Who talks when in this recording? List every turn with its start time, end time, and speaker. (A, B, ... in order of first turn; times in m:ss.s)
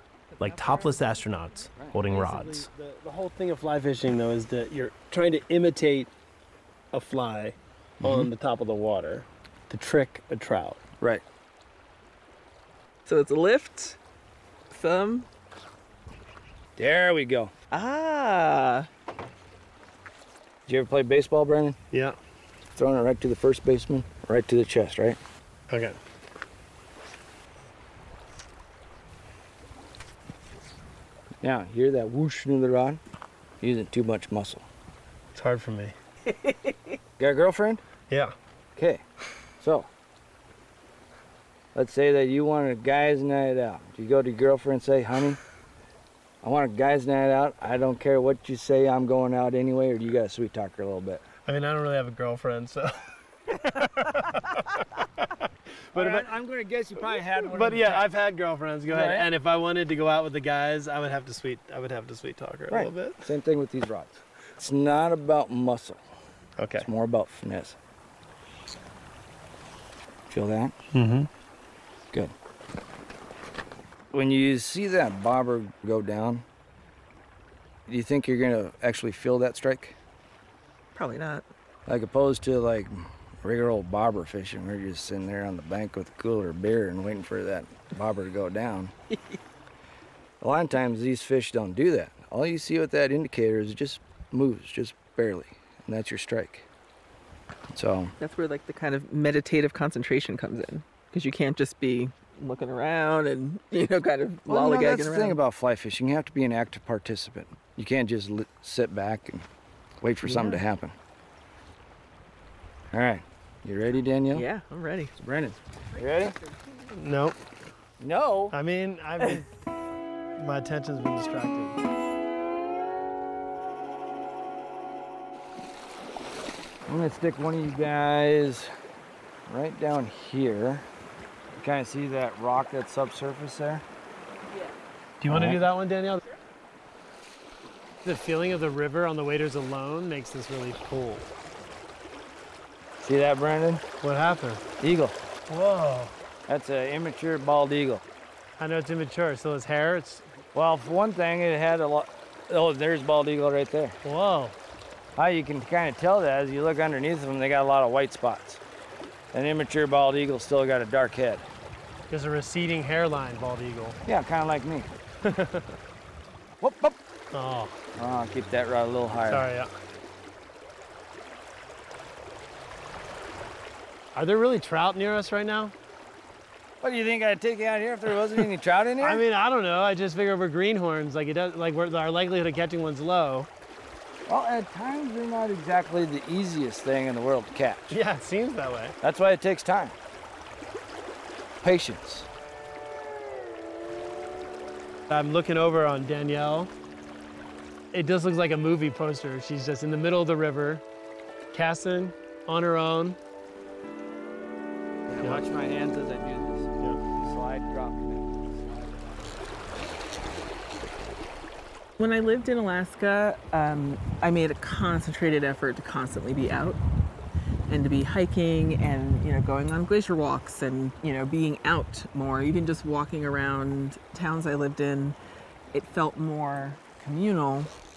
0:00.3-0:01.2 A
0:00.4-0:02.7 B
0:02.0-0:06.1 C
0:06.9-0:10.8 C
0:08.0-0:08.3 D
0:13.0-0:14.0 A
0:14.7-0:15.3 A
0:16.8-0:17.5 D
0:17.7-0:18.9 A
0:20.7-0:21.8 D
0:21.9-0:22.2 C
0:22.8-0:25.2 D
0:25.7-0:26.0 C
0:31.4-0:33.0 D
0:33.6-0:34.6 D
0:35.3-0:35.9 C
0:37.2-0:37.8 D
0:38.8-0:39.0 D
0:39.6-0:39.9 D
0:41.7-0:45.4 D
0:46.4-0:51.2 D
0:51.4-0:52.9 C
0:53.8-0:54.2 C
0:55.9-0:56.3 C
0:55.9-0:58.1 D
0:57.4-1:03.2 C
0:58.9-0:59.3 D
1:02.7-1:06.0 D
1:06.6-1:06.9 C
1:06.8-1:07.8 D
1:10.3-1:10.8 D
1:10.9-1:11.3 C
1:14.1-1:16.4 D
1:17.9-1:20.0 D
1:20.9-1:21.4 A
1:21.8-1:28.9 D
1:30.4-1:36.6 D
1:37.7-1:38.1 D
1:38.2-1:45.4 A
1:44.5-1:49.4 D
1:50.0-1:50.9 D
1:50.2-1:50.6 A
1:52.9-1:54.4 D
1:54.3-1:55.1 A
1:55.2-1:56.3 D
1:55.9-1:56.7 A
1:56.9-1:57.4 C
1:58.0-1:58.5 D
1:58.5-1:59.5 C
2:00.4-2:01.8 C
2:06.9-2:08.7 D
2:09.5-2:10.9 D
2:11.5-2:13.8 D
2:15.2-2:16.2 C
2:15.3-2:15.6 D
2:18.0-2:21.2 C
2:23.0-2:23.8 D
2:24.0-2:24.6 C
2:24.8-2:25.2 D
2:25.5-2:26.1 C
2:26.5-2:28.0 D
2:28.6-2:30.2 C
2:30.5-2:34.0 D
2:34.0-2:34.6 C
2:35.2-2:38.6 D
2:39.3-2:41.4 D
2:42.1-2:44.0 C
2:44.0-2:44.9 D
2:45.2-2:45.7 C
2:46.6-2:47.0 D
2:47.3-2:47.7 C
2:48.0-2:49.5 D
2:49.2-2:49.7 C
2:54.1-2:55.7 C
2:56.8-2:59.2 D
2:59.0-3:03.5 C
3:04.3-3:08.0 D
3:07.9-3:08.9 C
3:09.0-3:09.9 D
3:11.6-3:12.3 D
3:15.1-3:16.7 C
3:17.9-3:20.8 C
3:21.5-3:23.2 C
3:25.1-3:28.9 D
3:32.0-3:36.8 A
3:37.7-3:45.2 A
3:45.7-3:47.7 A